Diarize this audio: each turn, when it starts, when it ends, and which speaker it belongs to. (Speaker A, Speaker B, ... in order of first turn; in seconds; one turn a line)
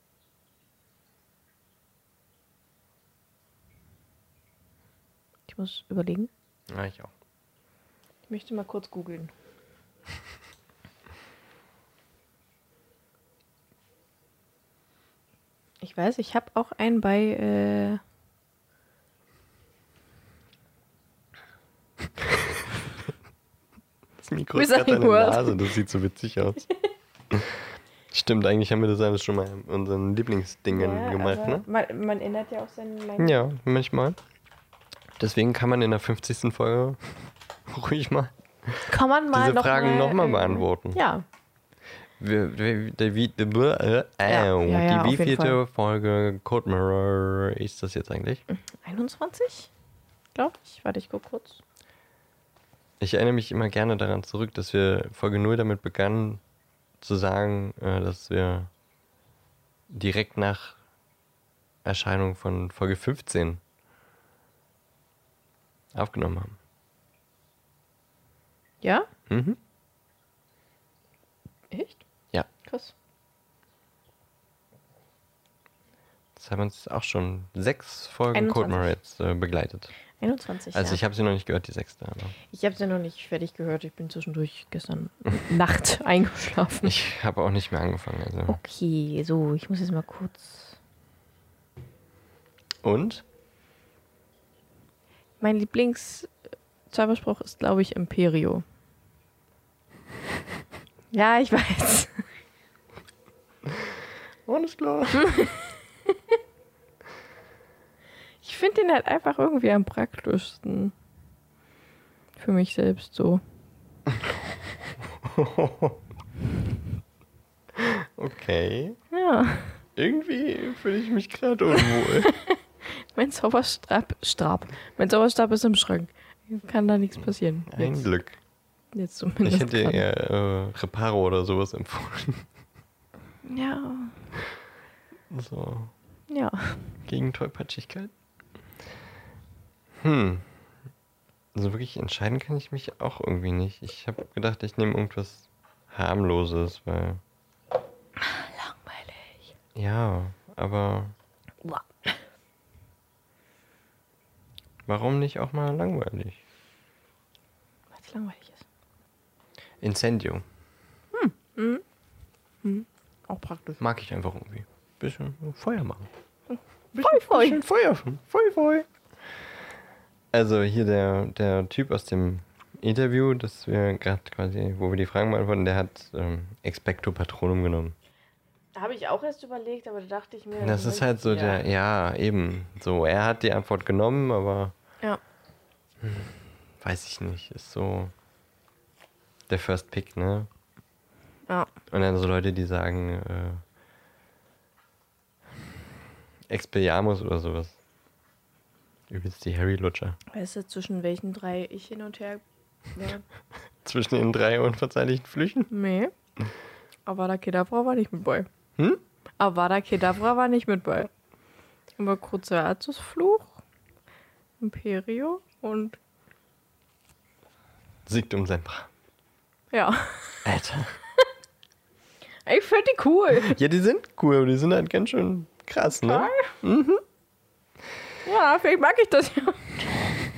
Speaker A: 5.5-6.3
Speaker B: 6.7-7.1
Speaker A: 8.3-9.3
Speaker A: 15.8-18.0
Speaker B: 22.2-22.4
Speaker B: 24.2-26.7
Speaker A: 24.5-25.6
Speaker B: 27.3-31.6
Speaker A: 30.7-33.4
Speaker B: 33.2-34.2
Speaker B: 35.2-37.0
Speaker B: 37.7-41.0
Speaker A: 38.9-41.2
Speaker B: 42.2-48.4
Speaker A: 44.2-45.6
Speaker A: 48.5-49.7
Speaker A: 50.3-51.6
Speaker B: 53.0-56.4
Speaker B: 57.0-58.7
Speaker B: 59.9-60.8
Speaker B: 61.8-63.6
Speaker B: 65.9-66.6
Speaker A: 68.8-69.1
Speaker B: 69.3-69.6
Speaker A: 71.7-72.0
Speaker A: 72.6-72.9
Speaker B: 76.3-79.9
Speaker A: 78.3-78.9
Speaker A: 80.2-81.0
Speaker B: 80.7-82.3
Speaker A: 82.5-86.9
Speaker B: 86.8-88.6
Speaker A: 88.5-90.8
Speaker B: 92.8-93.2
Speaker A: 95.4-96.3
Speaker A: 96.9-98.6
Speaker A: 101.1-102.2
Speaker B: 104.5-105.5
Speaker A: 105.1-105.6
Speaker A: 108.4-110.9
Speaker A: 112.4-113.4
Speaker B: 115.1-116.0
Speaker B: 117.7-119.0
Speaker A: 119.1-119.8
Speaker B: 120.0-122.3
Speaker A: 121.8-128.1
Speaker B: 127.7-128.4
Speaker A: 128.9-130.0
Speaker B: 129.4-132.5
Speaker A: 133.4-134.2
Speaker B: 135.3-135.9
Speaker A: 136.3-136.9
Speaker B: 137.1-138.1
Speaker B: 140.0-140.5
Speaker B: 141.5-147.2
Speaker A: 148.2-149.5
Speaker B: 149.7-151.1
Speaker A: 151.6-152.2
Speaker B: 154.9-156.4
Speaker A: 157.9-158.6
Speaker B: 159.8-160.4
Speaker A: 161.1-161.8
Speaker A: 162.6-163.8
Speaker B: 163.8-166.1
Speaker A: 166.5-167.6
Speaker B: 166.9-168.8
Speaker B: 170.3-177.9
Speaker A: 178.7-181.6
Speaker B: 180.6-184.7
Speaker B: 186.0-188.1
Speaker B: 189.5-190.5
Speaker B: 191.9-193.6
Speaker B: 196.5-197.8
Speaker B: 199.1-200.2
Speaker A: 200.3-202.4
Speaker A: 202.9-203.2
Speaker B: 203.8-205.7
Speaker A: 205.7-206.1
Speaker A: 207.1-208.5
Speaker A: 209.4-211.1
Speaker A: 212.0-213.6
Speaker A: 214.6-216.0
Speaker B: 218.1-218.9
Speaker A: 219.7-220.4
Speaker B: 220.4-221.0
Speaker A: 222.4-223.6
Speaker B: 223.4-227.0
Speaker A: 225.9-226.6
Speaker A: 228.2-229.8